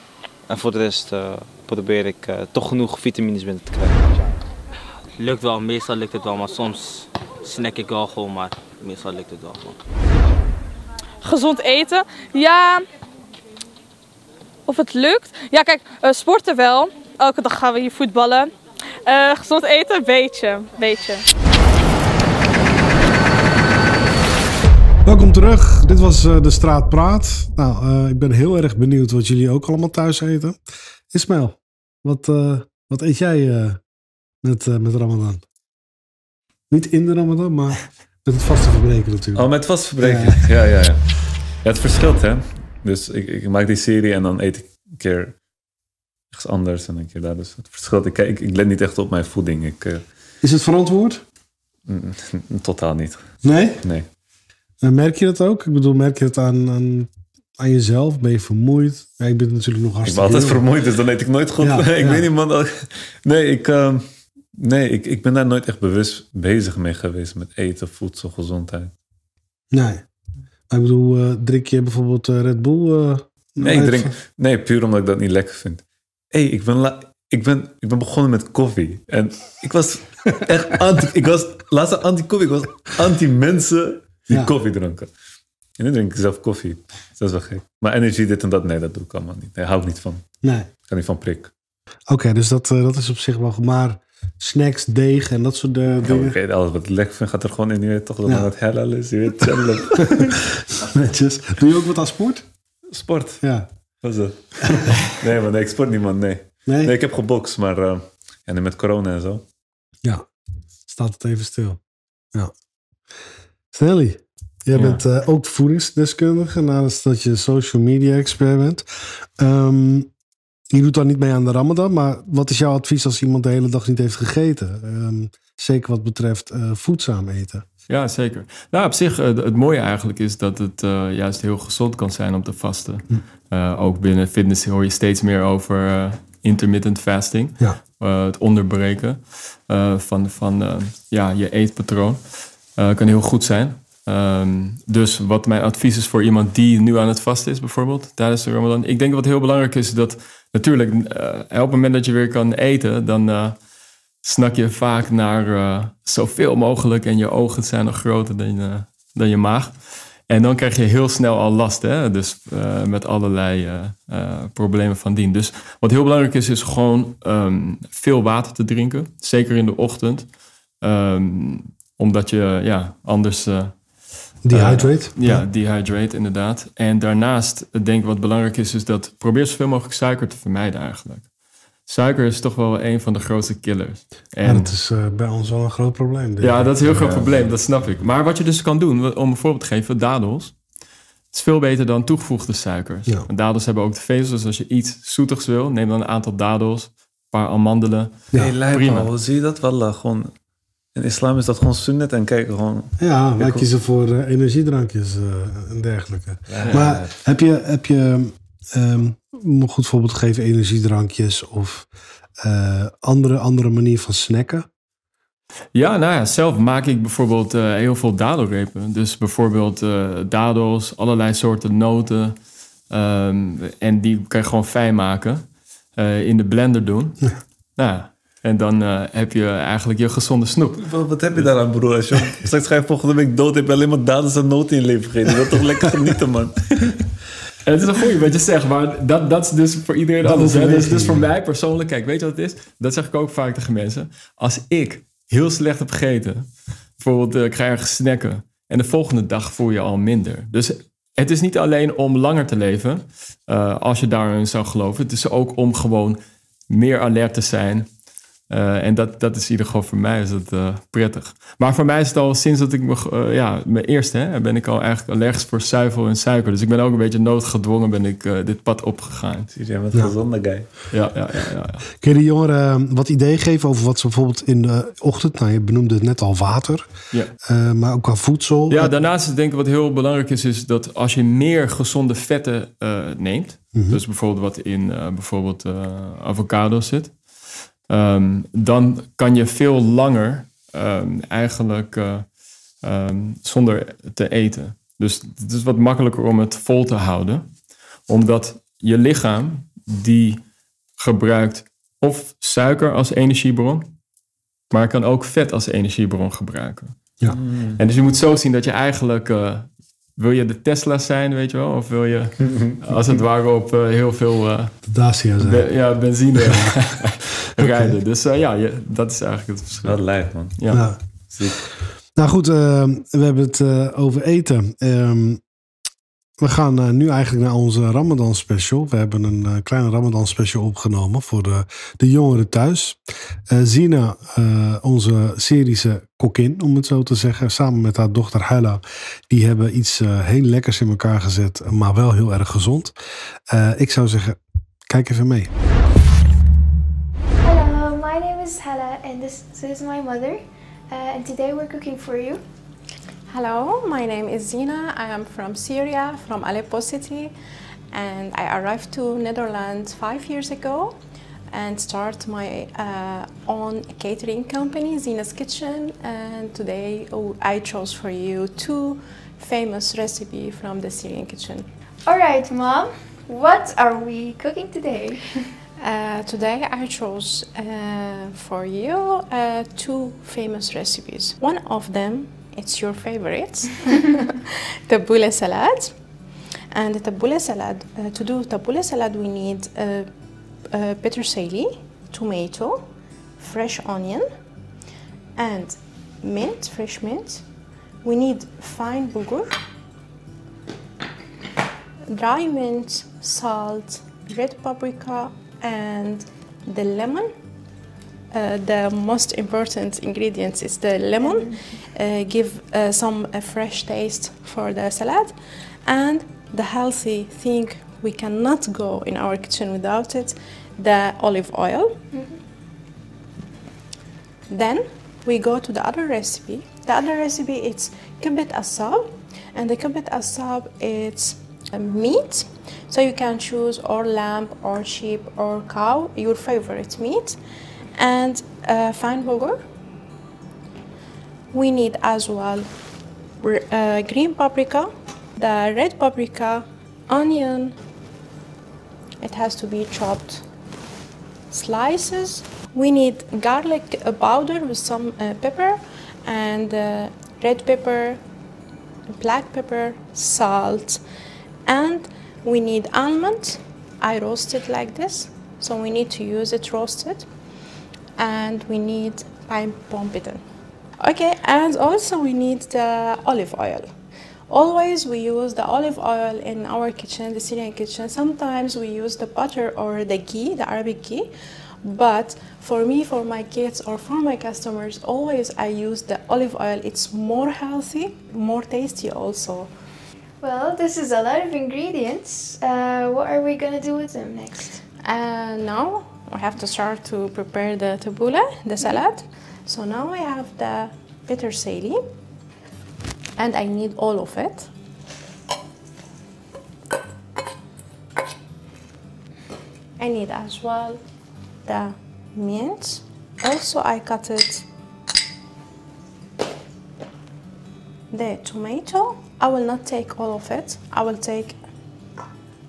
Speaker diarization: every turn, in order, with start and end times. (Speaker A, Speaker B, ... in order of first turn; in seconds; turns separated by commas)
Speaker A: 0.5-4.3, Speaker B: 5.2-9.8, Speaker C: 11.2-12.8, Speaker C: 14.7-18.5, Speaker C: 19.1-21.2, Speaker D: 25.1-30.6, Speaker D: 31.1-33.8, Speaker D: 34.4-35.4, Speaker D: 36.7-40.5, Speaker E: 39.4-45.4, Speaker E: 46.3-50.0, Speaker D: 50.4-51.2, Speaker E: 51.9-53.2, Speaker D: 53.4-53.8, Speaker E: 53.8-54.1, Speaker D: 54.8-60.6, Speaker E: 60.0-68.9, Speaker D: 61.6-62.3, Speaker D: 69.7-70.0, Speaker D: 70.7-74.1, Speaker E: 73.6-85.1, Speaker E: 85.8-90.2, Speaker D: 90.4-90.7, Speaker E: 90.9-91.5, Speaker D: 92.1-96.4, Speaker E: 96.0-100.4, Speaker D: 99.5-102.5, Speaker E: 102.9-103.4, Speaker D: 103.4-103.7, Speaker E: 104.0-109.5, Speaker D: 104.6-104.9, Speaker D: 106.7-106.9, Speaker D: 110.9-111.8, Speaker D: 113.7-118.9, Speaker F: 114.8-115.0, Speaker D: 119.4-120.1, Speaker D: 120.7-127.7, Speaker F: 127.9-142.2, Speaker F: 142.8-153.6, Speaker F: 154.2-159.8, Speaker F: 160.3-170.3, Speaker F: 170.8-173.8, Speaker D: 174.4-175.4, Speaker F: 174.5-181.3, Speaker F: 181.9-184.7, Speaker D: 184.4-187.1, Speaker F: 186.4-190.6, Speaker E: 186.9-187.4, Speaker F: 191.3-199.1, Speaker E: 198.3-200.3, Speaker E: 200.9-203.6, Speaker D: 203.0-211.9, Speaker E: 206.5-207.1, Speaker F: 206.6-207.0, Speaker D: 212.4-214.7, Speaker F: 215.7-222.4, Speaker F: 222.9-225.4, Speaker F: 226.0-227.2, Speaker F: 227.8-231.5, Speaker E: 230.8-237.0, Speaker F: 237.7-246.5, Speaker D: 240.2-241.2, Speaker F: 247.0-257.9, Speaker F: 258.5-269.5, Speaker E: 269.5-270.9, Speaker F: 270.9-271.9, Speaker D: 272.0-276.9, Speaker D: 277.4-278.9, Speaker F: 278.7-287.2, Speaker D: 283.7-284.0, Speaker F: 287.9-292.3, Speaker F: 292.8-297.5, Speaker F: 298.1-300.4, Speaker F: 301.0-303.9, Speaker F: 304.7-307.0, Speaker E: 307.3-307.8, Speaker F: 307.8-314.8, Speaker E: 312.4-312.8, Speaker D: 314.9-315.6, Speaker F: 315.4-320.0, Speaker D: 316.4-316.7, Speaker D: 317.6-317.9, Speaker E: 319.8-320.6, Speaker F: 320.6-320.8, Speaker D: 320.7-321.0, Speaker E: 321.3-321.6, Speaker D: 322.2-325.4, Speaker D: 326.4-342.9, Speaker D: 343.5-344.4, Speaker D: 344.9-345.5, Speaker G: 347.4-352.4, Speaker H: 353.3-357.3, Speaker H: 357.9-361.0, Speaker H: 361.5-371.7, Speaker G: 372.1-375.4, Speaker H: 375.8-385.9, Speaker H: 386.7-390.1, Speaker H: 390.7-392.9, Speaker H: 393.4-394.3, Speaker H: 395.4-397.4, Speaker H: 398.0-399.6, Speaker H: 402.1-407.3, Speaker H: 408.3-422.0, Speaker H: 424.5-437.4, Speaker H: 438.0-439.6, Speaker H: 441.5-442.7, Speaker H: 443.4-447.8, Speaker H: 449.2-450.4, Speaker H: 451.5-458.2, Speaker H: 459.1-461.0, Speaker H: 461.7-467.3, Speaker H: 468.2-470.4, Speaker H: 471.0-473.9, Speaker H: 474.5-481.3, Speaker H: 481.8-489.7, Speaker G: 490.4-494.8, Speaker H: 495.0-502.0, Speaker H: 503.4-504.7, Speaker H: 510.0-511.0, Speaker H: 511.7-514.7, Speaker H: 518.1-521.6